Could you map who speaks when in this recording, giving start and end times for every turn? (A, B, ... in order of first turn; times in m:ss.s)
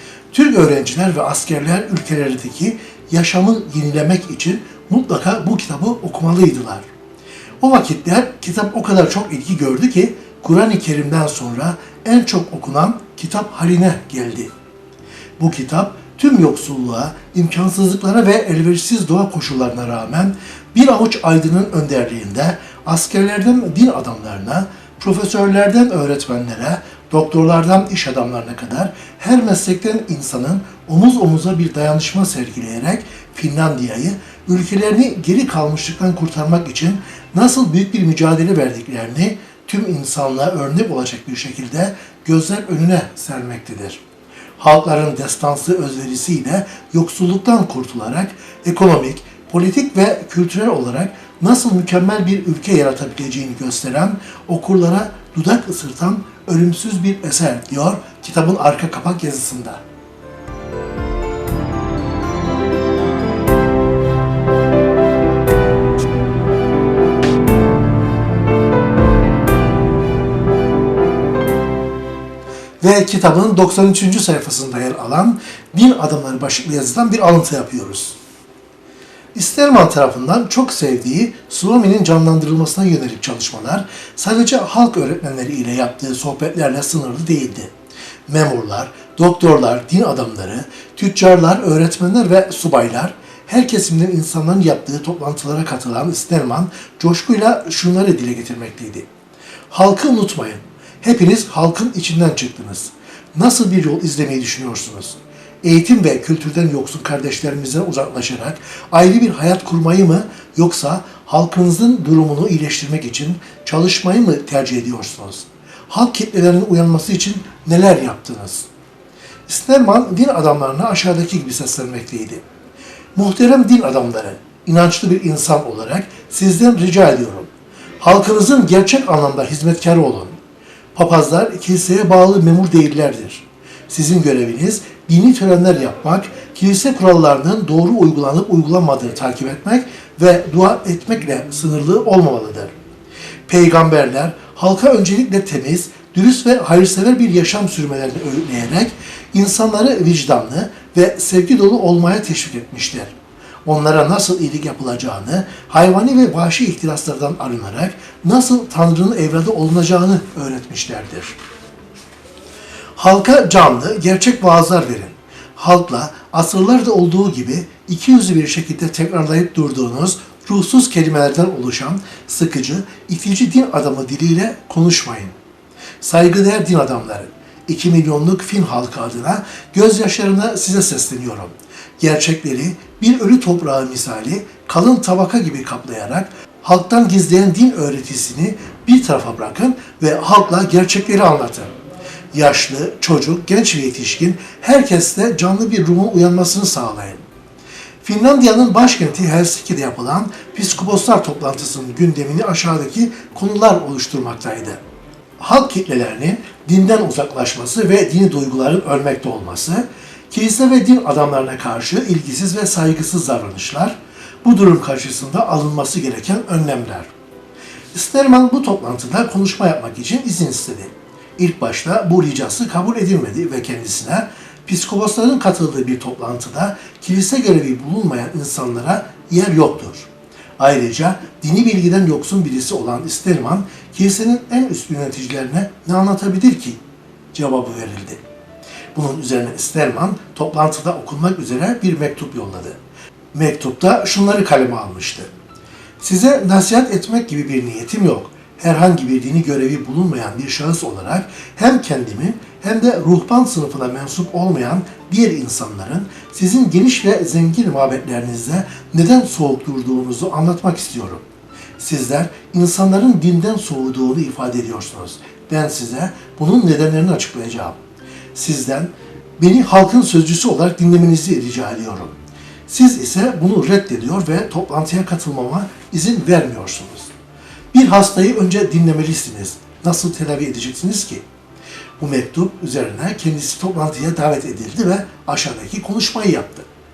0:00.3-0:06.9 A
0:07.6-0:14.5 A
0:15.4-0:44.0 A
0:44.6-0:59.8 A
1:12.8-1:18.2 A
1:19.4-1:27.7 A
1:28.3-1:39.1 A
1:39.7-1:58.7 A
1:59.5-2:02.4 A
2:03.2-2:07.5 A
2:08.0-2:10.4 A
2:11.0-2:22.7 A
2:23.5-2:33.1 A
2:33.6-2:41.4 A
2:43.0-2:55.4 A
2:56.0-3:11.7 A
3:12.3-3:17.2 A
3:18.0-3:24.8 A
3:25.4-3:37.1 A
3:37.9-3:56.8 A
3:57.3-3:58.2 A
3:58.9-4:02.8 A
4:03.3-4:05.3 A
4:06.0-4:21.2 A
4:21.8-4:27.8 A
4:28.3-4:32.1 A
4:32.7-4:37.1 A
4:37.7-4:41.2 A
4:42.0-4:46.7 A